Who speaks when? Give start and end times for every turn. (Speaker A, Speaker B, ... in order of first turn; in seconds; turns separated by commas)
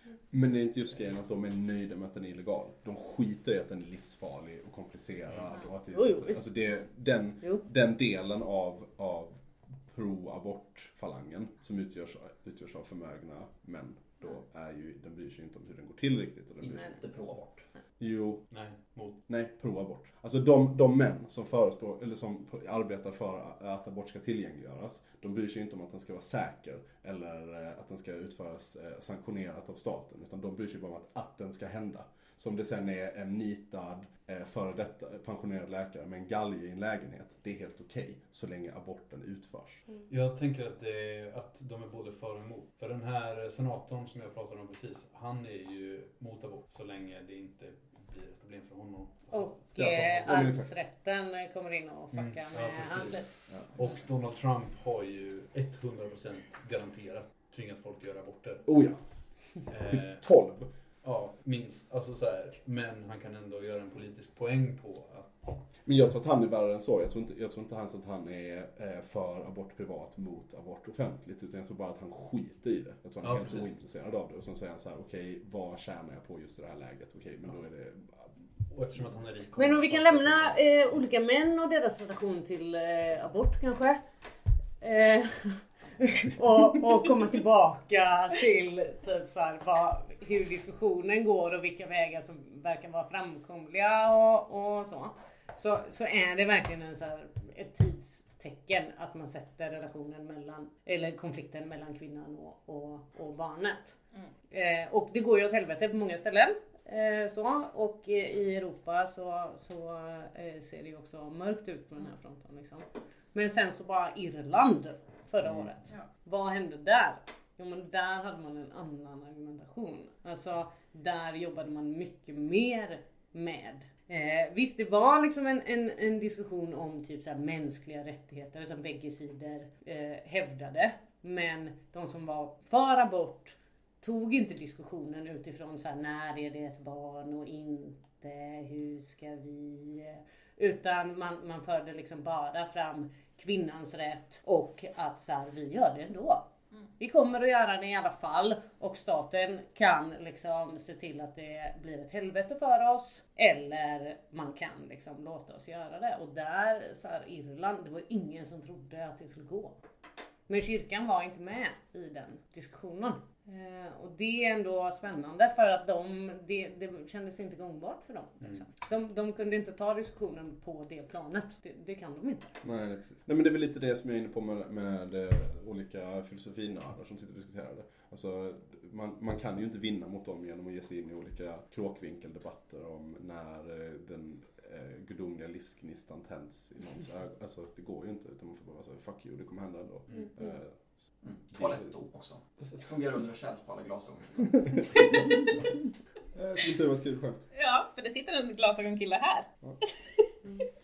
Speaker A: 0.3-17.1, Speaker B: 5.9-6.5, Speaker C: 16.6-17.7, Speaker A: 18.0-18.5, Speaker D: 18.5-19.2, Speaker A: 19.3-39.9, Speaker D: 40.1-49.9, Speaker B: 49.3-53.3, Speaker A: 49.8-50.7, Speaker D: 52.1-58.8, Speaker A: 58.6-60.7, Speaker D: 59.6-60.2, Speaker D: 61.0-65.6, Speaker A: 65.8-78.3, Speaker D: 73.2-73.7, Speaker D: 78.7-80.6, Speaker B: 79.6-84.0, Speaker B: 84.8-104.0, Speaker B: 104.5-159.8, Speaker B: 160.5-172.6, Speaker A: 172.6-191.9, Speaker C: 191.2-195.1, Speaker A: 196.3-197.5, Speaker E: 197.5-200.0